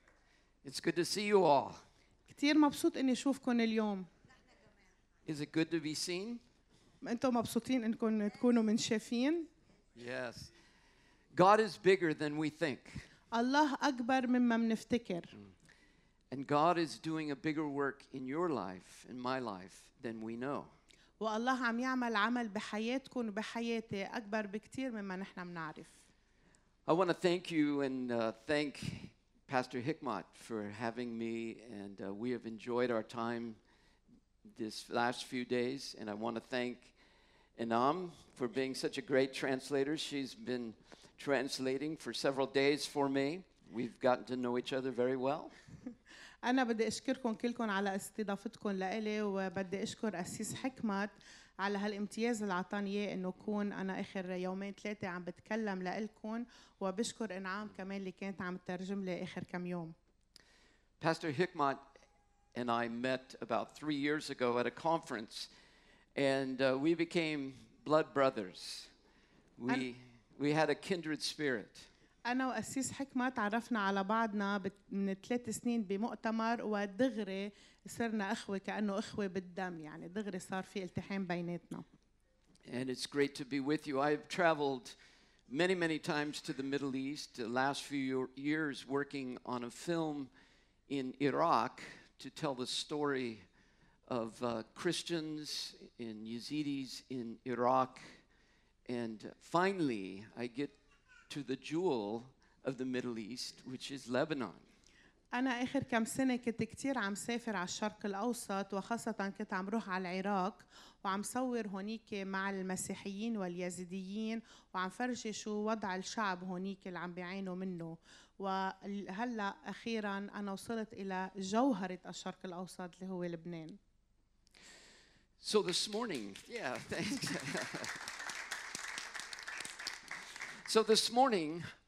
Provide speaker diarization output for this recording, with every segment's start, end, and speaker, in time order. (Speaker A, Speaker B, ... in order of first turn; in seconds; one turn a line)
Speaker A: 0.6-1.8
Speaker B: 2.3-4.1
Speaker A: 5.3-6.4
Speaker B: 7.0-9.5
Speaker A: 10.0-10.5
Speaker A: 11.3-13.0
Speaker B: 13.3-15.3
Speaker A: 16.3-20.7
Speaker B: 21.2-26.0
Speaker A: 26.9-33.6
Speaker A: 34.5-36.9
Speaker A: 37.6-45.5
Speaker B: 46.4-59.9
Speaker A: 61.0-61.8
Speaker A: 62.5-65.5
Speaker A: 66.1-68.9
Speaker A: 69.6-71.9
Speaker B: 72.2-81.9
Speaker A: 82.6-84.9
Speaker A: 85.5-90.3
Speaker A: 90.9-93.4
Speaker A: 94.1-98.0
Speaker A: 98.9-100.7
Speaker A: 101.3-104.6
Speaker B: 105.3-123.8
Speaker A: 125.4-128.1
Speaker A: 130.7-131.6